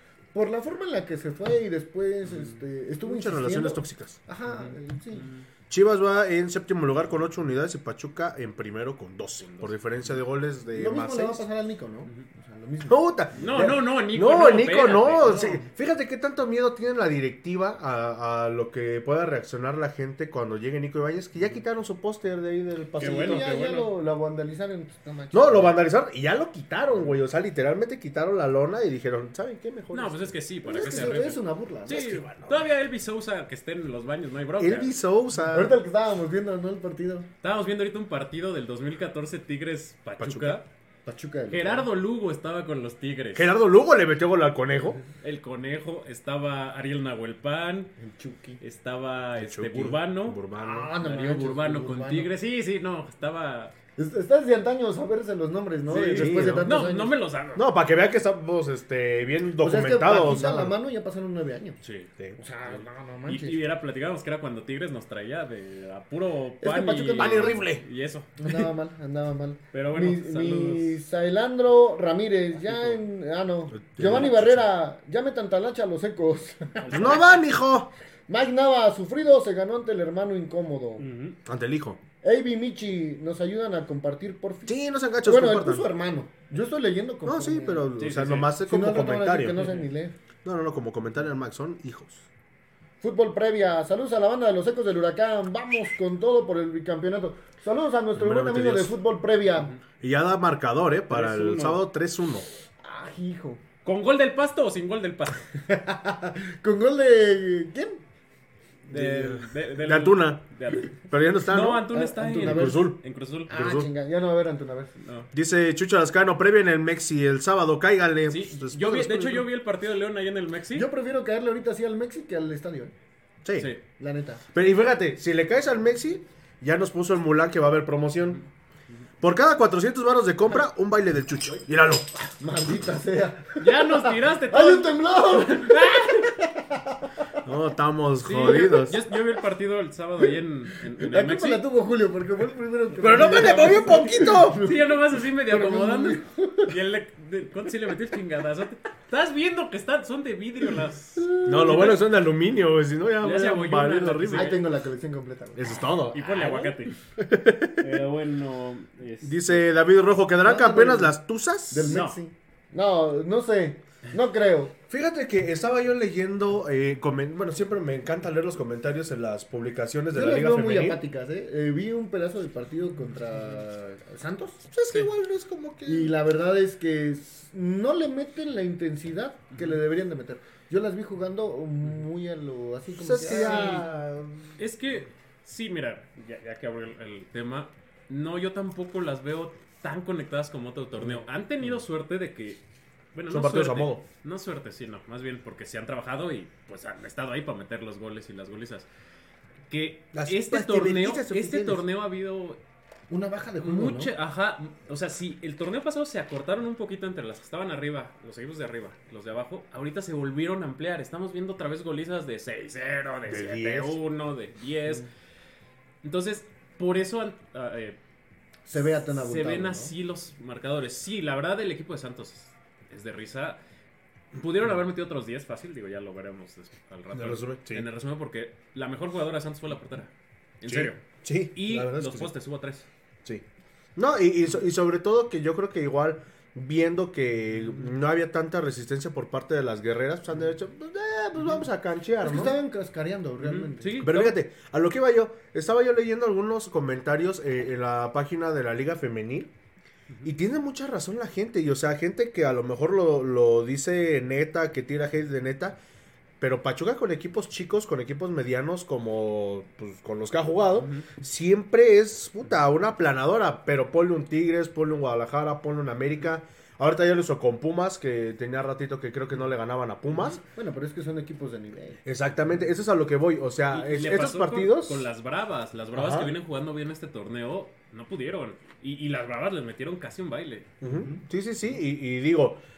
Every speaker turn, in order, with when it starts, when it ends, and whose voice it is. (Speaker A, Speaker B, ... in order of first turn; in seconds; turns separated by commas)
Speaker A: 0.3-5.3, Speaker B: 3.1-4.2, Speaker C: 4.5-5.5, Speaker B: 5.7-11.4, Speaker C: 9.5-9.7, Speaker A: 10.7-13.1, Speaker B: 12.8-23.5, Speaker C: 13.4-15.7, Speaker C: 23.0-23.9, Speaker A: 23.0-25.8, Speaker B: 25.3-30.3, Speaker C: 29.9-34.9, Speaker A: 30.6-32.2, Speaker B: 31.9-32.7, Speaker B: 34.6-35.8, Speaker A: 35.5-37.3, Speaker C: 37.4-40.7, Speaker B: 40.2-40.6, Speaker A: 41.1-41.9, Speaker C: 41.5-43.5, Speaker B: 43.4-45.0, Speaker C: 45.2-47.9, Speaker A: 48.0-48.6, Speaker C: 48.6-50.4, Speaker B: 49.4-50.9, Speaker A: 50.6-52.3, Speaker C: 51.0-53.7, Speaker A: 54.0-57.1, Speaker C: 55.9-57.7, Speaker B: 55.9-56.7, Speaker B: 57.6-60.8, Speaker A: 59.6-61.8, Speaker C: 61.8-62.1, Speaker A: 62.4-63.6, Speaker C: 62.7-68.3, Speaker A: 66.6-67.7, Speaker B: 67.2-67.8, Speaker A: 68.4-77.2, Speaker C: 69.7-71.0, Speaker B: 73.8-74.6, Speaker C: 76.8-77.4, Speaker B: 76.9-77.9, Speaker A: 78.3-81.0, Speaker C: 81.0-81.4, Speaker B: 81.5-82.0, Speaker A: 82.2-87.9, Speaker B: 84.7-85.9, Speaker B: 87.3-89.7, Speaker C: 88.0-88.5, Speaker A: 88.7-90.1, Speaker C: 89.5-89.9, Speaker B: 90.5-92.2, Speaker A: 93.0-99.7, Speaker B: 98.2-99.0, Speaker B: 100.0-102.5, Speaker C: 101.1-101.8, Speaker A: 102.8-103.6, Speaker C: 103.8-105.5, Speaker A: 105.7-108.0, Speaker C: 108.9-113.5, Speaker B: 108.9-113.9, Speaker A: 111.9-113.0, Speaker A: 113.5-115.0, Speaker C: 115.0-115.3, Speaker B: 115.3-119.5, Speaker C: 118.3-120.9, Speaker A: 120.7-122.9, Speaker B: 123.4-123.7, Speaker A: 124.0-124.4, Speaker B: 124.5-128.4, Speaker B: 129.2-132.1, Speaker A: 132.4-137.4, Speaker C: 133.6-136.3, Speaker B: 137.4-139.0, Speaker C: 138.2-141.6, Speaker A: 138.4-138.8, Speaker A: 140.9-146.7, Speaker B: 143.0-144.7, Speaker C: 143.3-143.8, Speaker C: 144.6-152.0, Speaker A: 151.2-151.9, Speaker B: 151.5-154.6, Speaker C: 153.2-154.6, Speaker A: 154.3-156.8, Speaker B: 155.6-156.3, Speaker C: 156.1-156.9, Speaker B: 157.2-158.0, Speaker C: 157.8-159.7, Speaker B: 159.2-162.0, Speaker A: 160.4-161.2, Speaker A: 161.7-164.8, Speaker C: 161.9-162.2, Speaker B: 164.9-171.0, Speaker A: 170.1-174.6, Speaker B: 174.7-176.1, Speaker A: 175.9-183.9, Speaker B: 183.0-184.5, Speaker C: 183.3-183.9, Speaker C: 184.6-192.6, Speaker C: 193.1-198.9, Speaker B: 193.3-194.0, Speaker C: 199.7-202.6, Speaker B: 200.1-201.8, Speaker A: 203.1-204.1, Speaker C: 203.6-215.1, Speaker B: 213.3-214.0, Speaker C: 216.0-218.0, Speaker A: 218.7-219.9, Speaker C: 219.0-223.6, Speaker C: 224.3-232.9, Speaker B: 227.1-227.9, Speaker B: 230.7-232.3, Speaker B: 234.0-242.6, Speaker A: 242.2-244.1, Speaker C: 243.4-244.4, Speaker B: 244.0-249.5, Speaker B: 250.2-255.8, Speaker B: 256.4-270.4, Speaker A: 270.6-272.0, Speaker B: 272.1-275.1, Speaker C: 273.7-280.7, Speaker B: 275.9-276.3, Speaker B: 280.8-282.6, Speaker A: 280.8-281.2